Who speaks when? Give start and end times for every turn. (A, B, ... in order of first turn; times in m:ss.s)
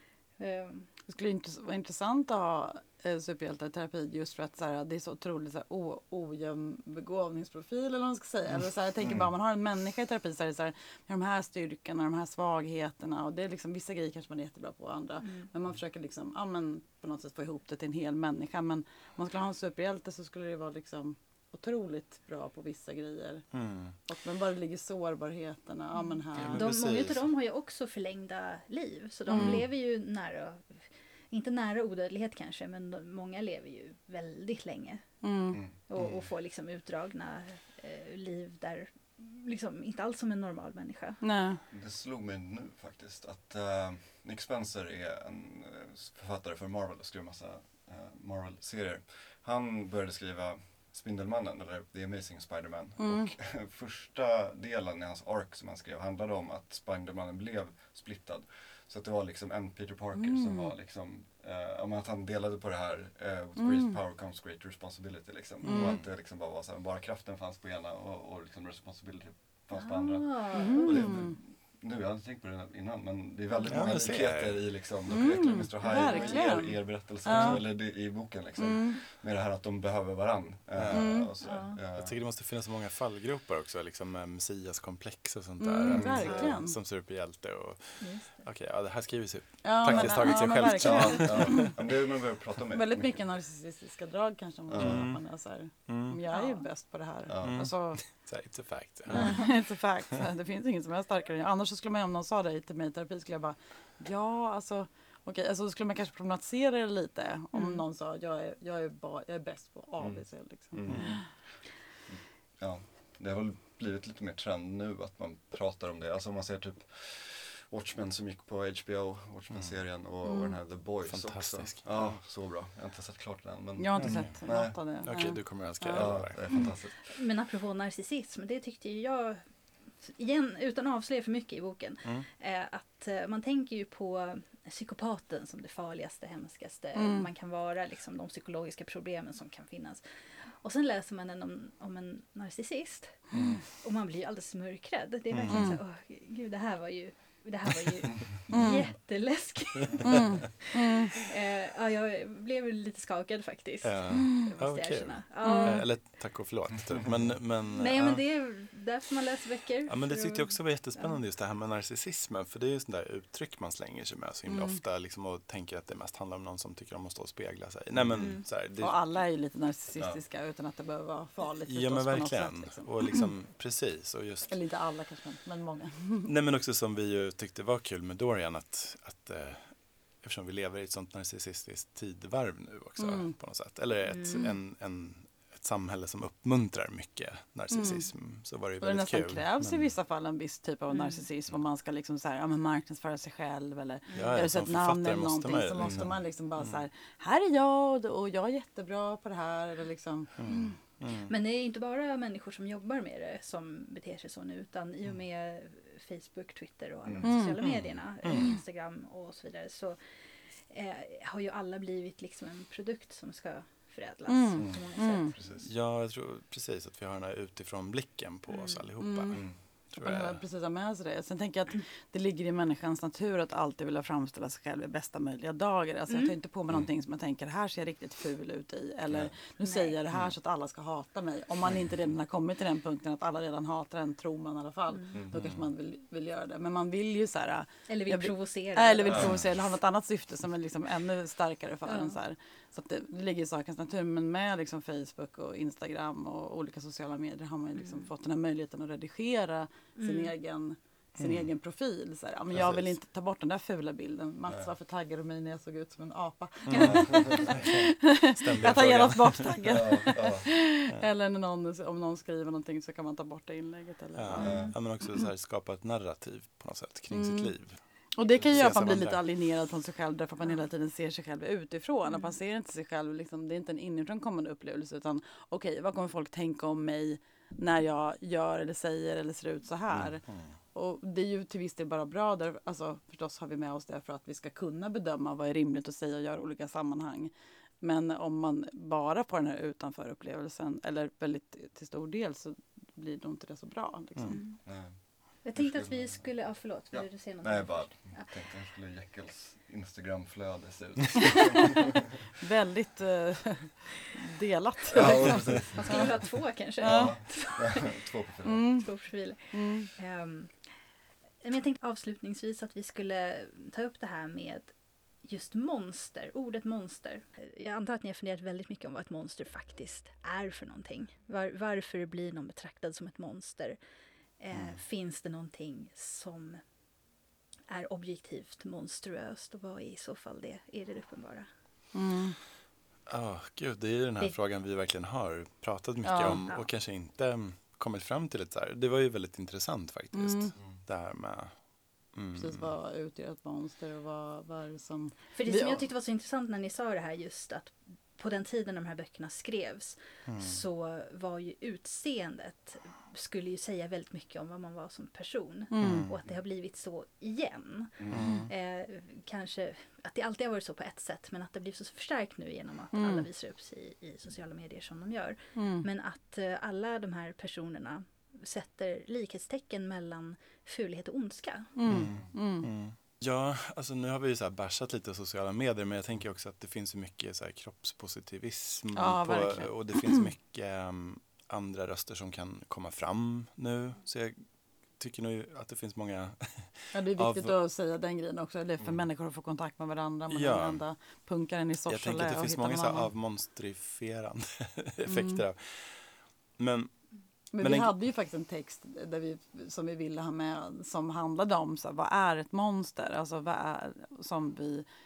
0:00.4-0:00.9 A
0:01.1-0:26.7 B
0:09.0-0:09.3 C
0:15.2-0:15.5 A
0:23.5-0:24.0 D
0:26.0-0:35.1 A
0:26.4-0:27.3 D
0:29.3-0:29.6 B
0:35.2-0:35.6 B
0:35.5-0:36.3 C
0:35.9-0:41.2 A
0:41.2-0:41.6 B
0:41.7-1:22.2 C
0:53.0-0:53.3 B
1:00.2-1:00.7 B
1:03.6-1:04.0 B
1:05.6-1:06.0 B
1:05.6-1:06.0 D
1:09.8-1:11.2 A
1:10.5-1:11.3 B
1:13.7-1:14.7 D
1:15.1-1:17.8 B
1:15.9-1:16.6 A
1:18.6-1:19.0 B
1:20.8-1:21.2 D
1:20.9-1:21.3 B
1:21.4-1:21.8 A
1:22.0-1:31.7 D
1:25.6-1:26.8 B
1:25.9-1:26.6 C
1:28.0-1:28.5 A
1:29.6-1:31.8 B
1:29.8-1:30.1 C
1:30.8-1:33.2 C
1:32.7-1:38.0 B
1:34.7-1:35.1 C
1:34.8-1:35.2 D
1:35.9-1:36.2 D
1:36.3-1:36.6 A
1:37.3-1:37.7 C
1:37.4-1:39.5 D
1:39.1-1:51.3 B
1:39.2-1:39.4 A
1:47.5-1:47.8 A
1:50.0-2:04.8 C
1:50.9-1:51.2 D
1:59.5-1:59.8 D
2:00.2-2:00.6 B
2:01.0-2:02.2 D
2:03.8-2:06.6 B
2:04.0-2:06.8 D
2:05.9-2:07.2 C
2:07.1-2:09.5 A
2:10.0-2:35.9 A
2:17.0-2:17.3 B
2:23.3-2:23.6 D
2:25.3-2:25.8 D
2:25.5-2:25.8 B
2:28.5-2:28.8 B
2:30.1-2:31.1 B
2:33.8-2:38.3 D
2:35.4-2:35.8 B
2:37.7-2:41.2 A
2:39.9-2:48.9 D
2:44.5-2:44.8 B
2:47.9-2:48.4 C
2:48.2-2:48.4 A
2:48.8-2:52.9 B
2:51.7-2:54.5 D
2:54.5-2:56.3 B
2:56.2-3:09.9 D
3:03.0-3:03.3 B
3:04.1-3:04.6 A
3:07.7-3:08.1 B
3:08.8-3:20.8 B
3:10.9-3:11.3 A
3:14.1-3:14.4 A
3:14.1-3:16.8 D
3:15.8-3:16.1 C
3:20.4-3:21.3 D
3:21.2-3:30.0 A
3:27.0-3:27.3 C
3:27.2-3:27.7 B
3:27.6-3:28.6 D
3:30.6-3:35.4 A
3:34.3-3:35.4 B
3:34.6-3:35.7 C
3:35.6-3:40.4 D
3:38.5-3:38.8 A
3:39.0-4:24.6 B
3:39.3-3:39.6 C
3:46.1-3:46.4 A
3:49.6-3:50.0 A
3:54.9-3:55.2 A
3:55.1-3:55.4 C
3:55.3-3:55.6 D
3:57.9-3:59.3 A
3:59.1-3:59.4 C
4:01.9-4:02.2 A
4:07.8-4:08.1 A
4:10.0-4:10.3 A
4:11.2-4:11.5 D
4:12.5-4:13.0 D
4:16.7-4:19.8 D
4:16.8-4:17.5 C
4:19.6-4:20.5 C
4:24.2-4:27.8 D
4:24.4-4:24.8 C
4:24.4-4:24.8 A
4:27.1-4:27.6 B
4:28.2-4:54.4 B
4:28.3-4:29.3 D
4:32.1-4:32.4 A
4:39.9-4:40.6 D
4:54.3-4:54.6 A
4:54.6-5:02.0 C
4:55.4-4:58.3 A
5:02.4-5:06.1 B
5:04.9-5:06.3 C
5:05.7-5:08.0 A
5:06.8-5:07.2 B
5:06.8-5:08.7 C
5:08.4-5:08.9 B
5:08.8-5:10.6 A
5:09.5-5:09.9 B
5:11.4-5:23.8 A
5:24.4-5:26.6 A
5:27.7-5:31.5 A
5:31.9-5:32.4 B
5:33.1-5:42.7 D
5:36.0-5:36.4 B
5:40.1-5:40.5 B
5:42.4-5:45.9 B
5:45.3-6:11.7 A
5:50.3-5:50.6 D
5:55.7-5:56.1 B
5:55.8-5:56.2 D
5:58.0-5:58.3 C
5:58.1-5:58.5 D
5:58.2-5:58.5 B
6:02.9-6:03.3 B
6:05.6-6:05.9 B
6:11.8-6:12.7 B
6:11.9-6:24.5 D
6:11.9-6:12.3 C
6:19.0-6:20.2 B
6:25.0-6:27.6 D
6:26.9-6:33.1 B
6:30.3-6:30.8 D
6:31.9-6:36.9 D
6:35.1-6:35.4 B
6:37.5-6:44.9 B
6:37.6-6:38.0 D